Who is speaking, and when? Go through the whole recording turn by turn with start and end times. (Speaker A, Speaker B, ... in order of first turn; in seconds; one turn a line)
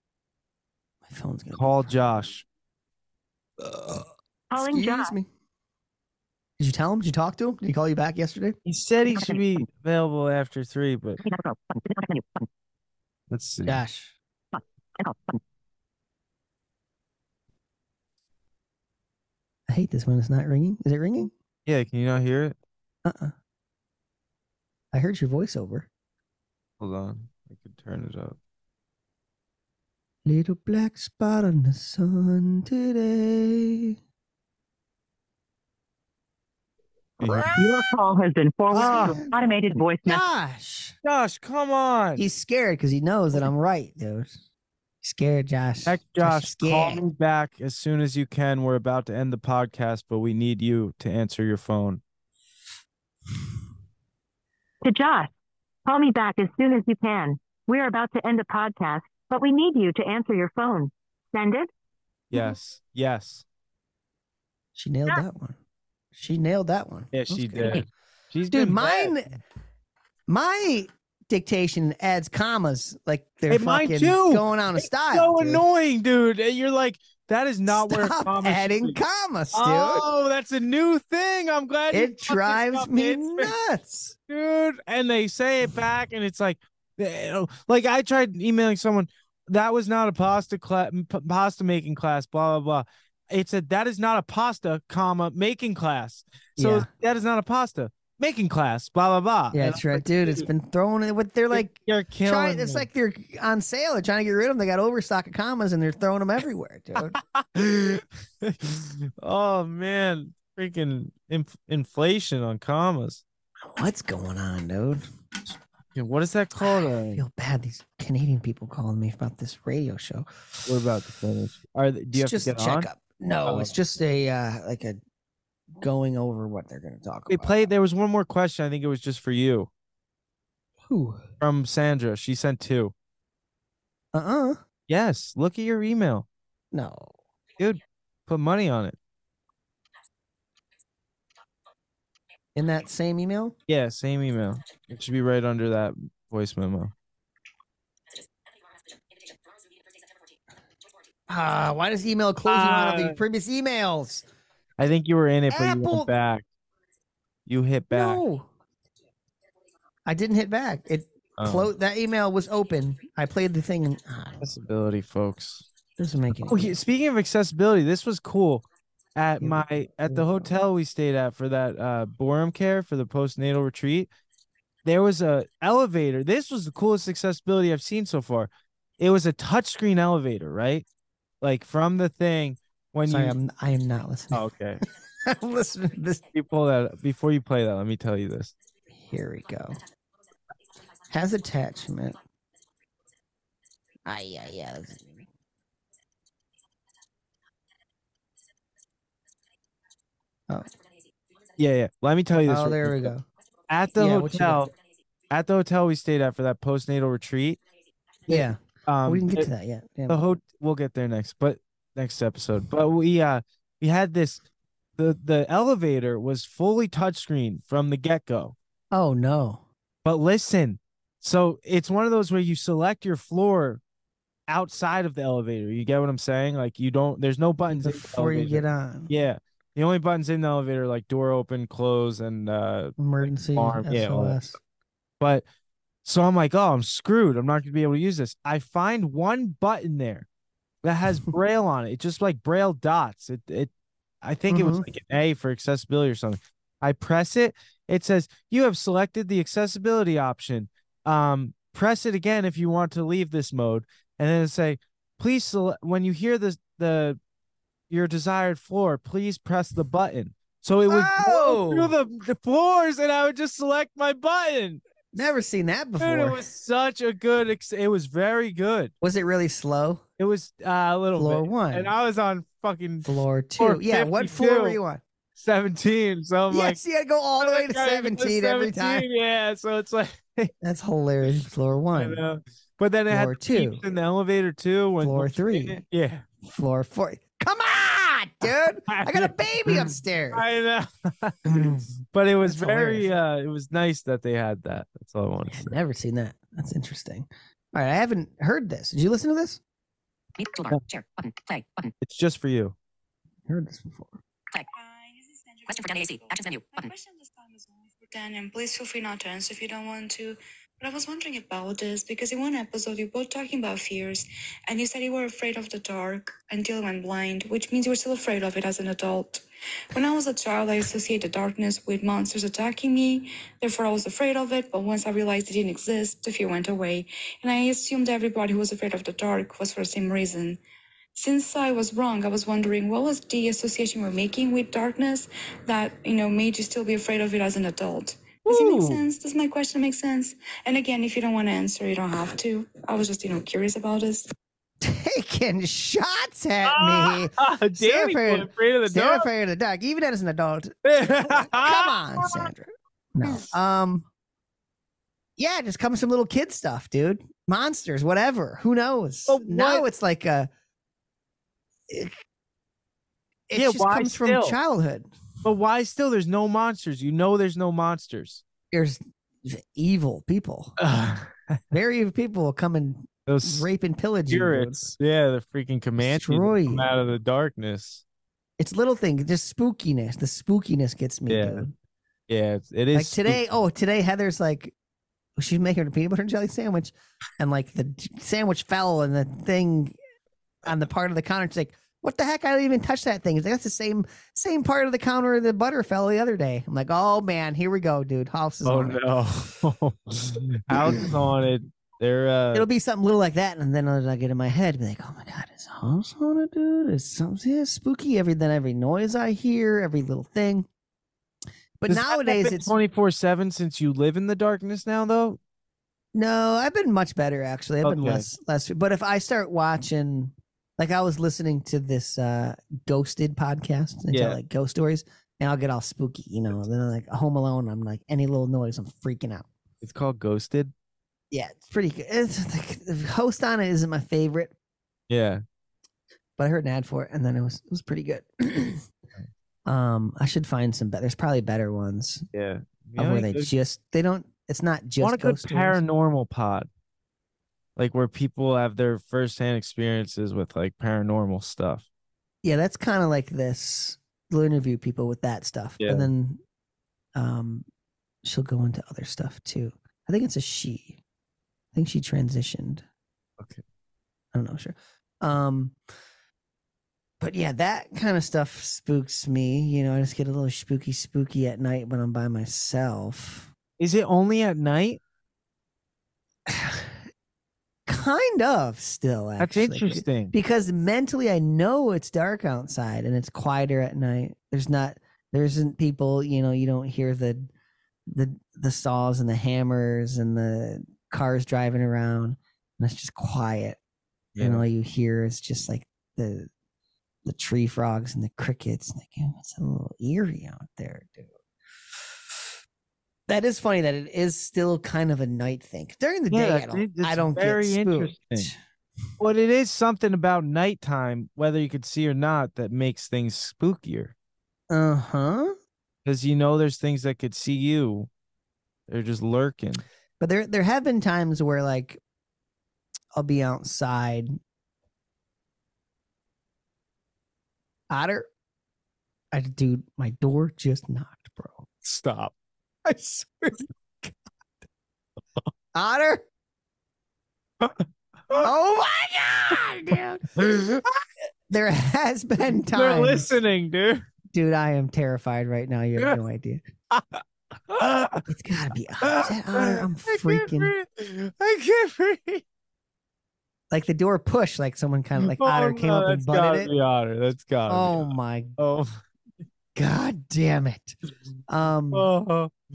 Speaker A: 1.1-2.3
Speaker B: 1.5-2.4
Speaker A: 3.6-5.3
Speaker C: 4.5-5.1
Speaker A: 6.6-8.6
Speaker B: 8.7-11.2
Speaker D: 9.1-9.6
Speaker D: 11.2-12.5
Speaker B: 13.3-13.8
Speaker A: 13.7-14.2
Speaker D: 14.5-15.4
Speaker A: 19.7-21.3
Speaker B: 21.7-22.6
Speaker A: 23.0-23.3
Speaker A: 24.9-25.9
Speaker B: 26.8-28.4
Speaker A: 30.2-33.9
Speaker B: 37.2-37.5
Speaker A: 37.2-37.7
Speaker C: 37.6-40.2
Speaker A: 38.7-39.4
Speaker B: 38.7-39.2
Speaker A: 40.0-41.0
Speaker B: 41.0-42.2
Speaker A: 42.2-44.4
Speaker A: 45.0-47.0
Speaker B: 45.9-52.0
Speaker C: 54.8-55.3
Speaker C: 55.9-61.7
Speaker B: 62.3-63.4
Speaker A: 64.8-65.6
Speaker A: 66.1-67.8
Speaker B: 67.1-69.2
Speaker A: 68.5-69.4
Speaker A: 70.3-75.6
Speaker B: 73.5-79.0
Speaker A: 77.7-80.1
Speaker B: 79.5-83.5
Speaker A: 81.9-84.2
Speaker B: 84.3-100.5
Speaker A: 96.6-96.9
Speaker A: 99.5-107.2
Speaker B: 101.5-102.9
Speaker B: 107.0-113.2
Speaker A: 113.7-115.0
Speaker B: 115.9-117.2
Speaker A: 116.6-120.3
Speaker B: 120.7-122.9
Speaker A: 122.1-125.0
Speaker B: 123.5-123.7
Speaker A: 125.8-127.7
Speaker B: 127.3-129.7
Speaker A: 130.9-131.2
Speaker B: 131.4-132.9
Speaker A: 134.1-134.6
Speaker B: 134.9-136.3
Speaker A: 136.7-137.1
Speaker B: 137.6-139.0
Speaker A: 142.6-143.6
Speaker B: 143.7-146.9
Speaker A: 151.3-154.2
Speaker B: 152.5-153.2
Speaker B: 154.8-156.4
Speaker A: 155.5-156.1
Speaker B: 157.5-158.2
Speaker A: 157.9-158.5
Speaker A: 160.1-164.6
Speaker B: 161.4-161.7
Speaker B: 164.4-165.7
Speaker A: 166.0-166.8
Speaker B: 166.4-168.7
Speaker B: 169.2-174.1
Speaker A: 169.4-170.5
Speaker B: 174.8-180.9
Speaker B: 181.4-183.4
Speaker A: 183.1-184.5
Speaker B: 184.3-184.8
Speaker A: 185.2-186.2
Speaker B: 186.3-188.5
Speaker A: 189.0-189.8
Speaker A: 191.1-192.2
Speaker A: 194.1-195.3
Speaker B: 201.6-203.1
Speaker A: 202.5-203.3
Speaker B: 203.7-204.7
Speaker A: 204.0-204.7
Speaker B: 205.3-207.6
Speaker B: 208.3-209.5
Speaker A: 208.3-210.3
Speaker B: 210.1-214.4
Speaker B: 215.0-218.6
Speaker A: 218.9-219.6
Speaker B: 220.1-223.8
Speaker B: 224.5-234.4
Speaker A: 227.7-229.1
Speaker A: 233.0-234.6
Speaker B: 235.2-235.4
Speaker B: 236.1-240.3
Speaker B: 240.8-243.7
Speaker B: 244.2-257.2
Speaker A: 244.5-244.9
Speaker B: 257.9-264.8
Speaker A: 260.9-261.9
Speaker A: 265.1-266.4
Speaker B: 266.0-268.9
Speaker A: 269.0-270.0
Speaker B: 270.2-274.8
Speaker A: 271.1-271.9
Speaker A: 273.1-275.0
Speaker B: 275.4-276.8
Speaker A: 276.5-279.1
Speaker B: 277.4-280.5
Speaker A: 280.6-282.2
Speaker B: 281.9-286.2
Speaker A: 283.1-283.9
Speaker A: 285.0-285.8
Speaker A: 286.4-290.4
Speaker B: 288.4-295.8
Speaker A: 292.4-293.1
Speaker A: 295.5-299.6
Speaker D: 300.4-301.9
Speaker B: 302.0-302.8
Speaker A: 303.5-304.2
Speaker E: 304.7-330.6
Speaker D: 305.7-306.9
Speaker E: 331.1-344.3
Speaker B: 338.5-339.0
Speaker A: 344.8-354.1
Speaker B: 346.6-349.3
Speaker B: 350.9-352.5
Speaker B: 353.2-353.5
Speaker A: 355.4-360.5
Speaker B: 359.3-359.9
Speaker A: 361.9-362.1
Speaker A: 363.5-365.1
Speaker B: 363.5-364.6
Speaker B: 365.4-368.4
Speaker A: 368.7-370.8
Speaker B: 370.8-371.6
Speaker A: 371.7-374.9
Speaker B: 373.3-373.7
Speaker B: 374.3-378.0
Speaker A: 376.0-376.9
Speaker A: 378.6-381.7
Speaker B: 381.3-381.7
Speaker B: 382.3-383.5
Speaker A: 382.9-384.7
Speaker A: 385.4-390.0
Speaker A: 390.6-399.0
Speaker B: 398.6-402.7
Speaker A: 400.8-401.0
Speaker A: 402.5-410.7
Speaker A: 411.8-412.8
Speaker B: 411.9-415.4
Speaker A: 416.1-429.5
Speaker B: 417.8-418.3
Speaker B: 424.1-424.4
Speaker B: 429.8-430.7
Speaker A: 431.3-434.5
Speaker B: 435.1-435.4
Speaker A: 436.4-438.8
Speaker A: 439.7-442.3
Speaker B: 442.3-443.5
Speaker A: 443.0-445.8
Speaker B: 445.0-446.7
Speaker B: 447.8-451.9
Speaker A: 452.4-456.4
Speaker B: 455.8-456.1
Speaker A: 457.1-457.7
Speaker A: 458.2-461.0
Speaker A: 461.7-462.8
Speaker A: 464.3-465.8
Speaker A: 467.2-473.5
Speaker B: 473.8-475.0
Speaker A: 476.5-477.0
Speaker A: 477.9-487.5
Speaker B: 479.4-480.3
Speaker A: 488.1-493.8
Speaker B: 494.4-494.7
Speaker A: 494.4-496.5
Speaker A: 497.2-501.3
Speaker A: 503.3-508.6
Speaker B: 506.3-508.5
Speaker B: 509.2-514.1
Speaker A: 514.7-515.6
Speaker B: 516.0-518.1
Speaker B: 518.9-519.8
Speaker A: 520.2-522.0
Speaker A: 523.1-524.4
Speaker A: 527.9-528.3
Speaker A: 529.3-531.7
Speaker B: 531.8-532.3
Speaker A: 532.9-534.1
Speaker A: 535.8-536.2
Speaker B: 537.6-538.5
Speaker A: 538.3-540.2
Speaker B: 540.4-541.0
Speaker A: 541.5-543.3
Speaker B: 542.5-544.1
Speaker A: 544.3-546.6
Speaker B: 546.9-548.2
Speaker A: 548.3-550.7
Speaker B: 549.0-552.4
Speaker A: 553.7-556.7
Speaker B: 555.2-559.0
Speaker A: 557.7-558.6
Speaker A: 559.8-561.0
Speaker A: 561.5-562.1
Speaker B: 561.9-562.5